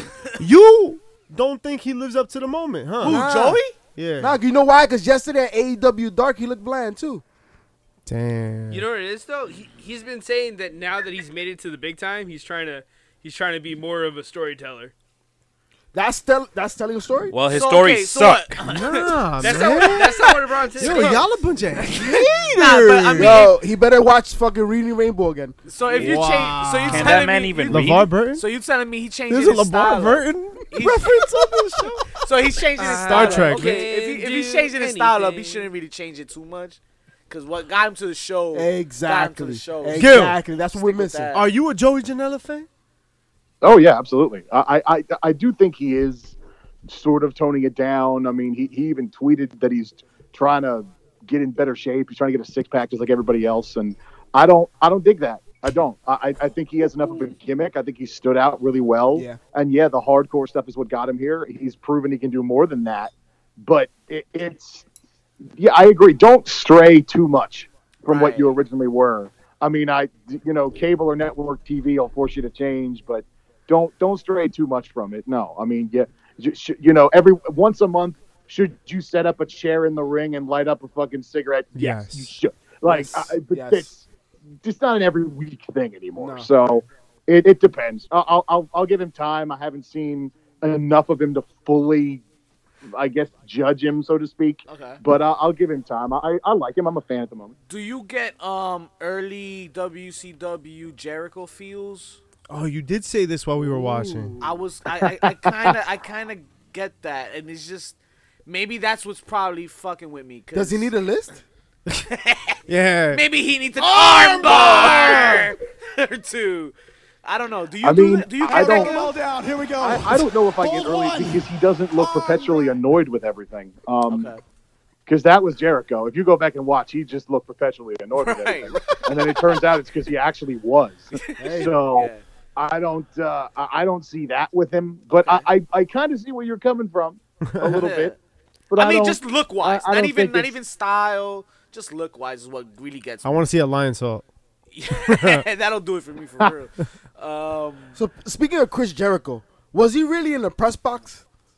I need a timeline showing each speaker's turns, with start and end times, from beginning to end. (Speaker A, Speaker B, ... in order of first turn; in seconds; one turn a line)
Speaker A: 0.4-3.2
Speaker B: 3.0-3.7
Speaker C: 3.0-3.6
Speaker A: 4.0-4.4
Speaker C: 4.2-7.2
Speaker A: 8.1-8.9
Speaker D: 8.7-14.9
Speaker C: 15.9-17.3
Speaker E: 17.3-18.6
Speaker B: 17.5-21.2
Speaker A: 18.6-23.5
Speaker D: 19.4-21.2
Speaker B: 21.9-23.5
Speaker C: 23.1-25.6
Speaker B: 25.7-31.4
Speaker A: 25.9-28.4
Speaker E: 26.9-28.1
Speaker A: 29.3-32.2
Speaker B: 32.1-41.5
Speaker D: 32.8-35.7
Speaker A: 32.8-33.9
Speaker C: 38.5-41.3
Speaker A: 40.0-40.4
Speaker A: 41.3-42.7
Speaker F: 43.6-46.3
Speaker F: 46.9-64.8
Speaker C: 59.1-59.4
Speaker F: 65.6-84.0
Speaker B: 68.1-68.5
Speaker A: 81.7-82.3
Speaker C: 82.8-83.9
Speaker F: 84.6-92.2
Speaker C: 86.2-86.5
Speaker F: 92.9-97.5
Speaker B: 94.7-95.0
Speaker B: 97.7-102.2
Speaker A: 102.5-104.4
Speaker C: 103.6-104.5
Speaker B: 104.4-110.9
Speaker F: 105.0-105.7
Speaker C: 110.5-111.4
Speaker B: 112.0-112.6
Speaker A: 112.7-113.2
Speaker B: 113.1-116.7
Speaker A: 113.9-115.5
Speaker G: 114.4-115.4
Speaker B: 117.2-119.2
Speaker F: 117.8-119.0
Speaker G: 118.4-121.4
Speaker F: 119.8-124.3
Speaker G: 122.0-122.7
Speaker B: 124.1-124.4
Speaker F: 125.1-138.1
Speaker B: 128.2-129.4
Speaker B: 131.1-132.2
Speaker C: 131.4-131.7
Speaker B: 135.1-135.5
Speaker A: 137.4-137.9
Speaker B: 137.7-138.2
Speaker F: 138.7-140.5
Speaker B: 138.7-143.4
Speaker A: 143.2-144.2
Speaker B: 144.7-148.0
Speaker A: 145.1-145.4
Speaker C: 147.9-151.2